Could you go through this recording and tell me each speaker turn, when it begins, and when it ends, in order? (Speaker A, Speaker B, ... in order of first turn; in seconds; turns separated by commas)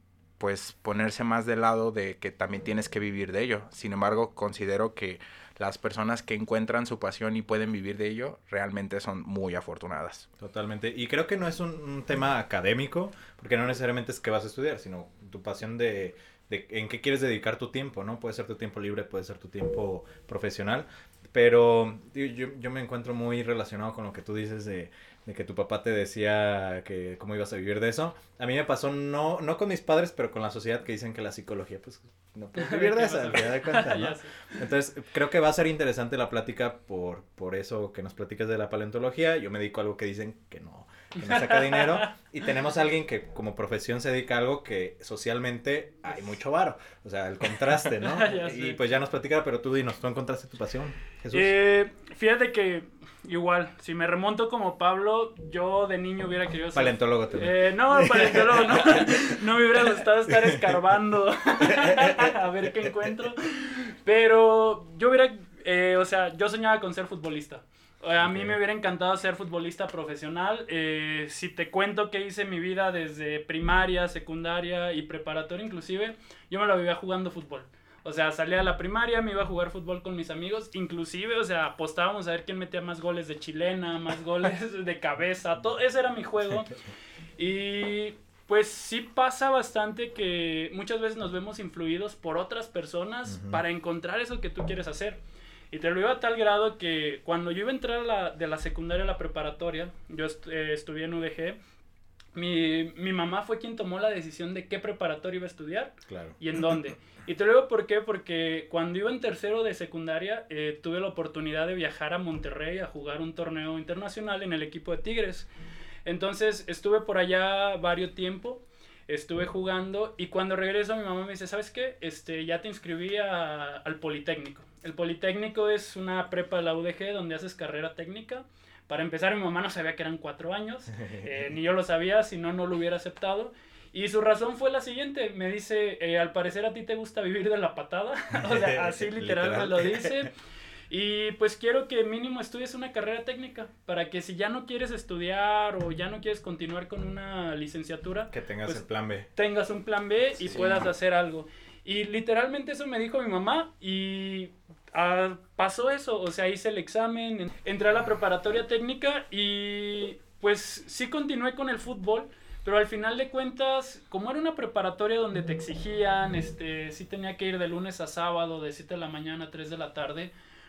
Speaker A: 0.4-10.3, Speaker B: 10.4-51.5, Speaker C: 32.5-34.3, Speaker C: 41.2-42.1, Speaker C: 48.0-48.8, Speaker C: 51.3-86.7, Speaker B: 56.7-59.1, Speaker B: 60.3-60.6, Speaker B: 61.7-62.3, Speaker B: 68.2-68.6, Speaker C: 87.4-95.2, Speaker B: 93.3-93.6, Speaker C: 95.7-101.6, Speaker C: 102.3-115.5, Speaker B: 106.1-106.4, Speaker C: 116.0-140.3, Speaker B: 131.0-131.4, Speaker B: 138.3-140.3, Speaker C: 140.9-170.3, Speaker B: 148.3-149.3, Speaker B: 150.4-150.8